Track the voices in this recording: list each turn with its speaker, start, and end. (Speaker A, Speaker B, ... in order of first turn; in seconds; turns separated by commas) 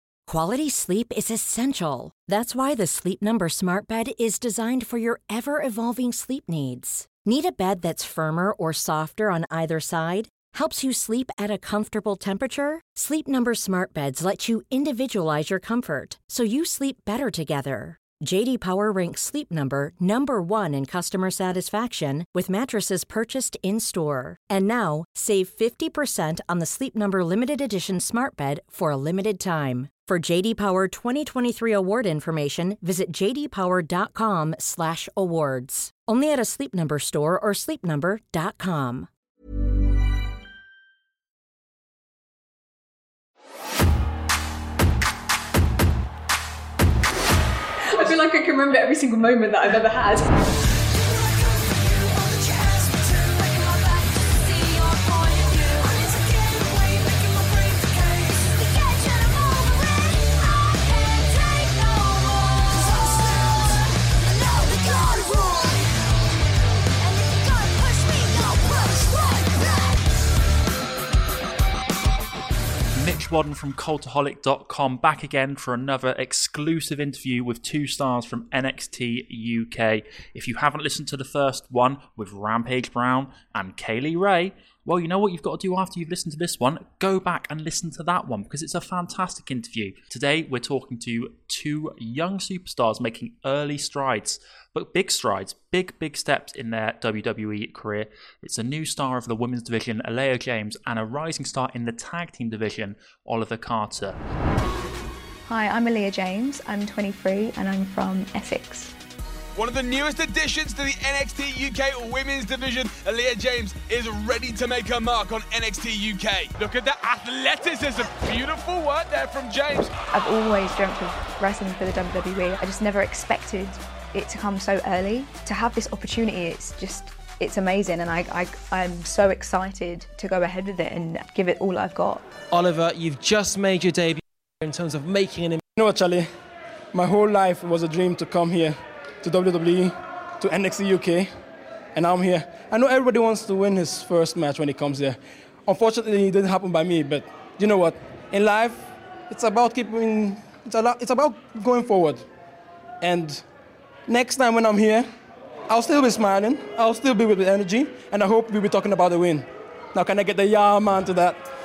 Speaker A: 0.3-39.1, Speaker B: 47.8-50.3, Speaker C: 72.9-104.2, Speaker B: 105.5-109.0, Speaker D: 109.6-120.0, Speaker B: 120.1-132.2, Speaker E: 132.5-135.6, Speaker F: 135.8-136.3, Speaker F: 136.9-141.3, Speaker F: 141.9-152.2, Speaker F: 153.0-153.4, Speaker F: 154.1-155.1, Speaker F: 155.7-161.4